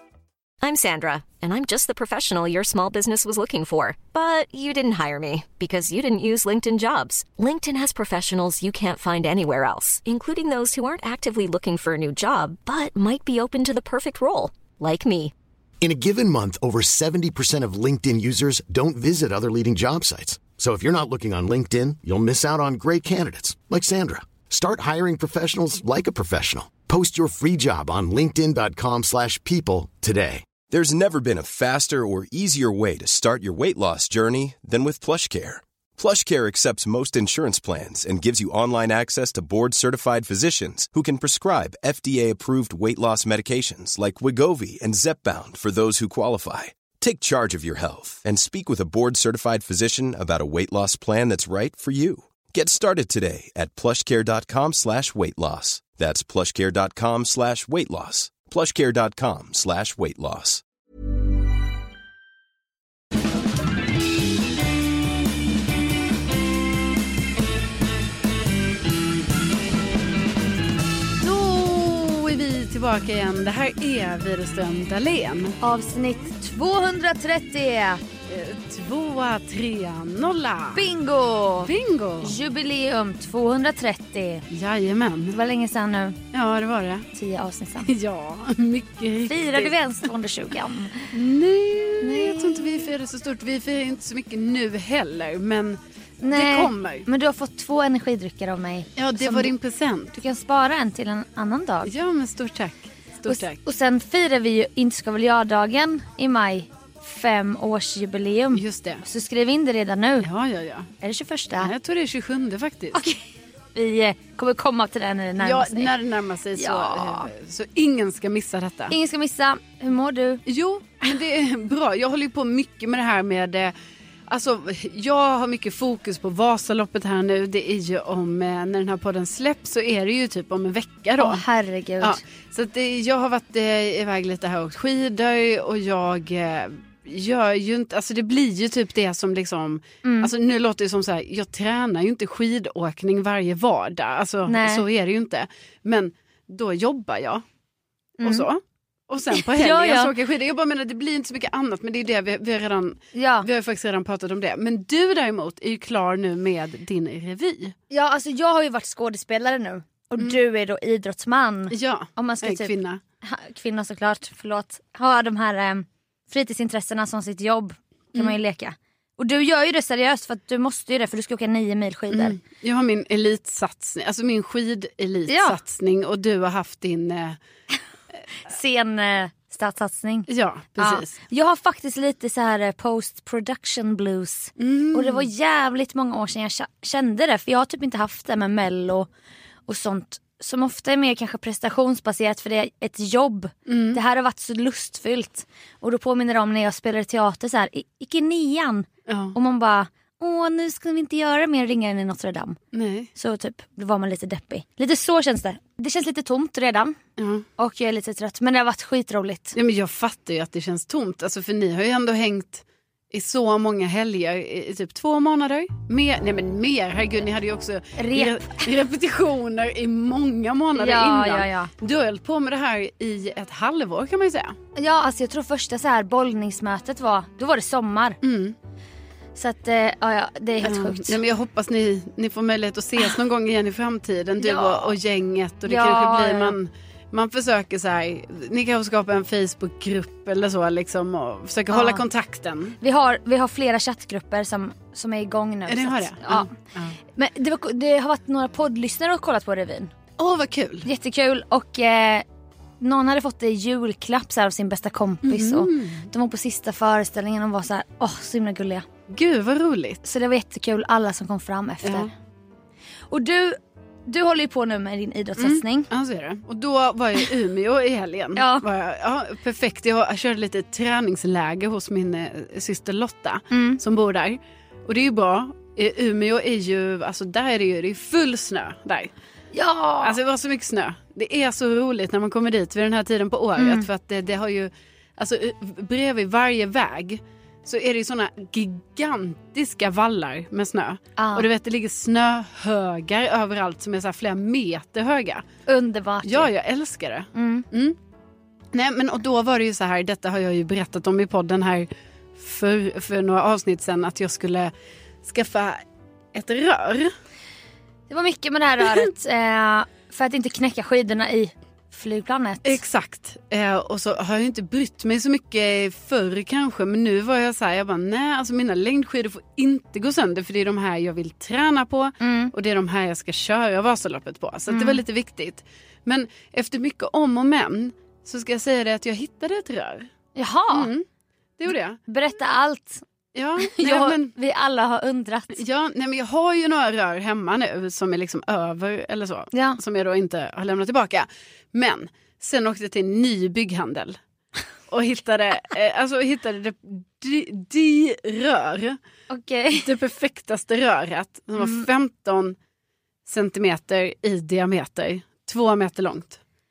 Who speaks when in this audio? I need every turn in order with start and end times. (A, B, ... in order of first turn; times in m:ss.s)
0:00.6-0:15.3 A
0:15.8-0:30.4 B
0:30.7-1:00.6 C
1:11.1-1:15.6 D
1:15.6-1:18.0 E
1:18.3-1:20.9 D
1:20.7-1:21.7 E
1:21.6-1:22.4 D
1:22.2-1:24.4 E
1:24.5-1:25.4 D
1:25.3-1:26.2 E
1:26.3-1:27.1 D
1:27.1-1:27.9 E
1:27.8-1:29.7 D
1:29.2-1:31.1 E
1:31.1-1:35.8 D
1:32.0-1:32.9 E
1:36.2-1:39.5 E
1:36.3-1:37.1 D
1:39.0-1:40.2 D
1:40.1-1:41.9 E
1:41.8-1:43.6 D
1:43.2-1:50.3 E
1:48.5-1:49.0 D
1:50.2-1:50.9 D
1:51.0-1:51.7 E
1:51.6-1:53.1 D
1:52.9-1:53.2 E
1:53.7-1:55.9 E
1:55.4-1:59.0 D
1:56.5-1:57.3 E
1:58.9-2:00.4 E
2:00.4-2:03.7 D
2:04.3-2:11.4 D
2:11.2-2:12.2 E
2:12.0-2:27.4 D
2:20.0-2:20.3 E
2:24.4-2:24.8 E
2:28.2-2:28.4 E
2:28.2-2:37.8 D
2:29.4-2:30.1 E
2:33.1-2:33.5 E
2:37.9-2:52.4 E
2:41.7-2:43.0 D
2:52.1-2:57.4 D
2:55.3-2:55.6 E
2:58.4-3:09.1 E
3:00.3-3:01.1 D
3:04.6-3:05.3 D
3:09.7-3:22.6 E
3:13.7-3:14.0 D
3:19.1-3:19.4 D
3:22.7-3:23.1 D
3:23.2-3:27.0 E
3:27.2-3:27.4 D
3:27.6-3:29.6 E
3:29.5-3:44.6 D
3:38.0-3:38.7 E
3:40.7-3:41.7 E
3:44.8-3:48.2 E
3:48.2-3:48.6 D
3:49.4-3:51.2 E
3:50.6-4:02.8 D
3:54.4-3:54.9 E
3:55.6-3:56.5 E
4:01.7-4:02.0 E
4:02.8-4:06.5 E
4:05.7-4:07.0 D
4:07.1-4:09.9 E
4:10.2-4:10.9 D
4:10.8-4:12.2 E
4:12.8-4:18.8 E
4:15.2-4:16.1 D
4:19.1-4:20.0 D
4:20.0-4:22.1 E
4:21.8-4:22.1 D
4:23.1-4:25.9 E
4:25.4-4:39.1 D
4:28.4-4:28.6 E
4:33.5-4:33.8 E
4:39.5-4:40.2 E
4:40.0-4:55.4 D
4:43.6-4:43.9 E
4:51.2-4:51.5 E
4:55.7-4:56.5 E
4:56.2-4:58.0 D
4:57.3-4:57.7 E
4:58.7-5:04.7 D
5:05.2-5:05.8 D
5:06.3-5:07.1 D
5:08.1-5:12.8 E
5:12.6-5:30.1 D
5:22.2-5:22.5 E
5:24.7-5:25.0 E
5:30.4-5:30.9 E
5:30.7-5:31.0 D
5:31.6-5:32.0 D
5:32.1-5:33.0 E
5:33.3-5:34.3 D
5:33.6-5:35.6 E
5:35.5-5:44.2 D
5:39.5-5:39.8 E
5:44.9-5:49.0 D
5:49.3-5:49.9 E
5:49.8-5:52.6 D
5:51.6-5:51.9 E
5:53.2-5:56.4 D